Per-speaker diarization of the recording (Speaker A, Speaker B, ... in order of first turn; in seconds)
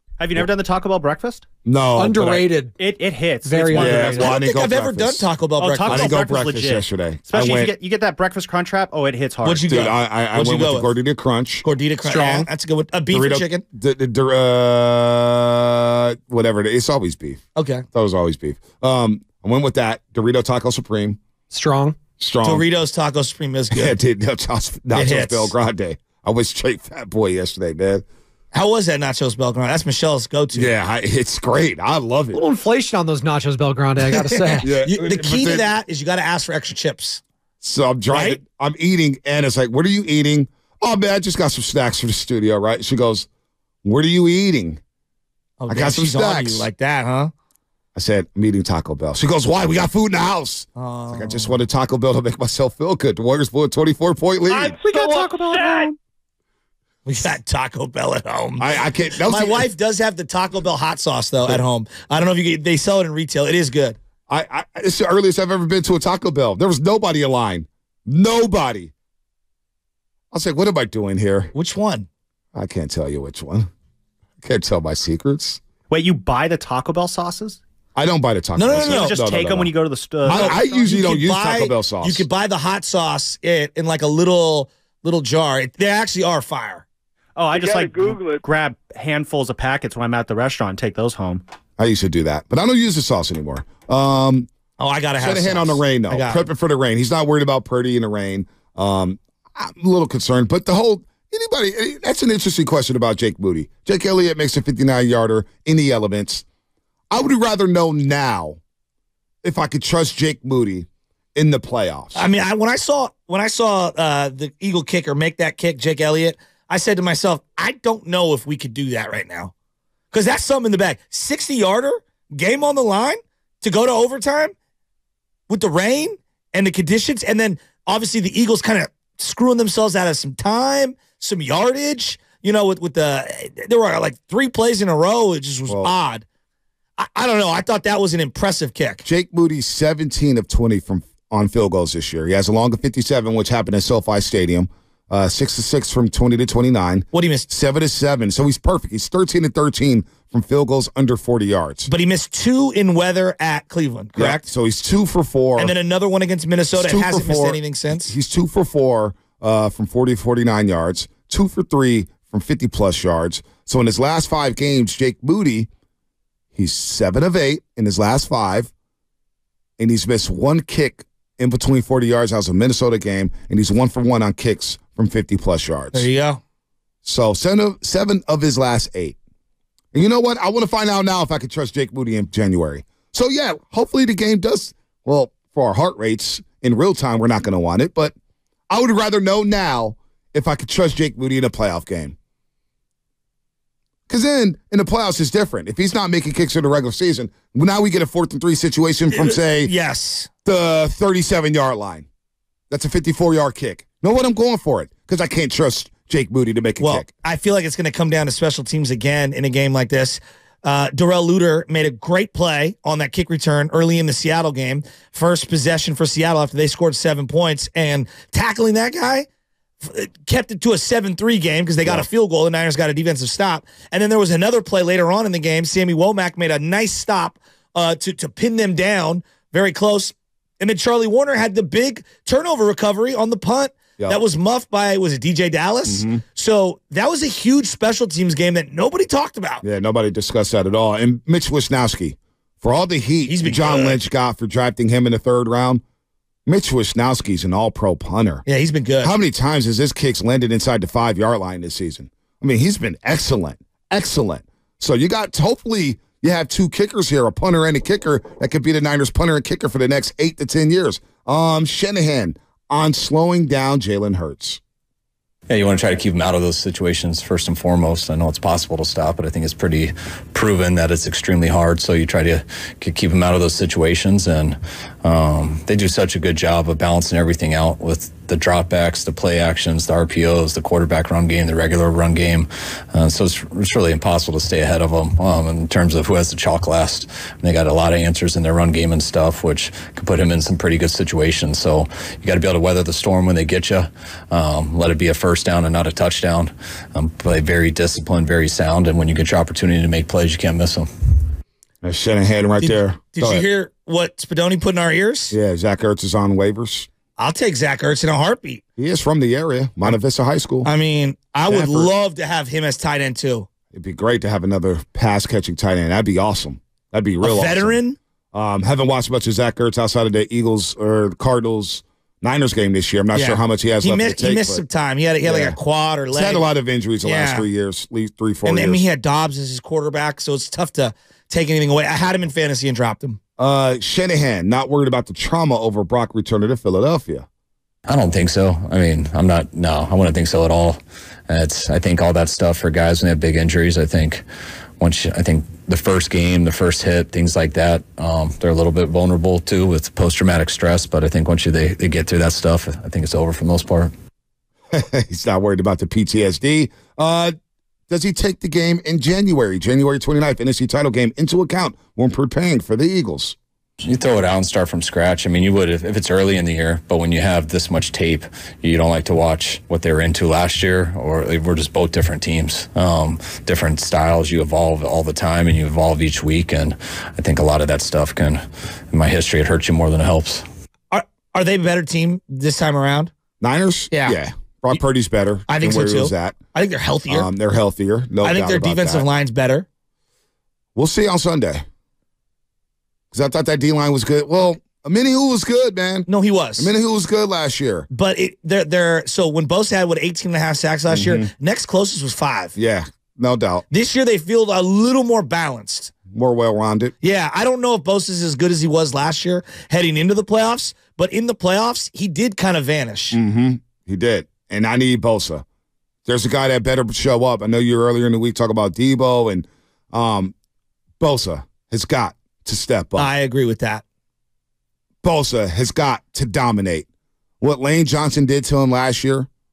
Speaker A: 0.2-1.4, 2.8-4.3, 5.6-9.9, 54.8-55.9, 75.9-77.6, 78.7-80.8, 87.3-91.4
Speaker B: 1.6-2.4, 3.7-5.3, 5.8-7.7, 9.7-11.6, 13.1-17.4, 17.9-21.2, 22.2-22.6, 23.7-28.0, 30.5-32.4, 34.6-35.7, 37.6-43.3, 43.8-44.8, 45.7-46.7, 47.9-54.8, 58.6-59.7, 64.3-68.9, 70.3-71.5, 72.5-73.7, 74.4-75.6, 78.0-79.7, 80.2-82.2, 91.8-94.5, 95.2-106.4, 107.1-108.6, 109.4-112.3, 135.7-135.9, 139.0-151.9, 154.2-155.7, 156.7-165.7, 166.5-168.7, 169.8-176.1, 177.0-179.2, 179.9-188.1, 188.7-192.1, 194.1-199.7, 200.4-202.1, 202.7-207.1, 235.9-236.2, 239.6-245.8, 246.4-248.4, 249.0-264.6, 301.8-303.4, 305.3-306.9, 308.8-310.7, 311.5-311.9, 313.7-317.8, 318.3-324.6, 325.2-325.6, 326.1-328.8, 333.4-337.2, 354.7-357.3, 357.9-363.4, 383.4-386.4, 387.1-389.1, 390.7-391.6, 393.1-397.9, 400.9-401.3, 402.6-403.6, 406.1-406.9, 413.1-415.4, 416.1-420.3, 421.0-423.1, 425.0-426.9, 427.4-429.3
Speaker C: 1.9-2.8, 3.4-4.3, 12.0-12.4, 21.5-22.0, 32.3-34.7
Speaker D: 4.0-6.1, 9.4-10.9, 11.6-13.6, 17.6-17.8, 22.4-23.9, 24.9-25.5, 28.5-30.7, 34.1-37.2, 38.1-38.4, 45.6-47.3, 50.8-51.6, 54.5-55.9, 57.0-64.0, 71.5-72.1, 78.5-79.2, 80.2-86.8, 87.6-87.9, 94.8-96.5, 112.1-119.5, 120.1-124.5, 125.5-136.2, 137.0-139.0, 147.1-147.5, 151.9-154.4, 155.6-158.2, 175.9-176.4, 199.1-200.3, 206.8-219.3, 219.8-239.6, 243.3-244.0, 248.4-249.1, 302.6-305.3, 307.2-308.6, 310.6-313.5, 317.2-318.0, 323.1-326.5, 327.0-327.4, 328.4-333.2, 380.9-383.1, 383.9-384.2, 385.5-387.3, 388.2-389.6, 396.1-396.7, 397.9-402.5, 403.7-405.9, 407.0-413.2, 422.9-423.8
Speaker E: 265.5-300.9, 337.9-340.8, 341.3-344.2, 344.8-353.9, 363.8-380.4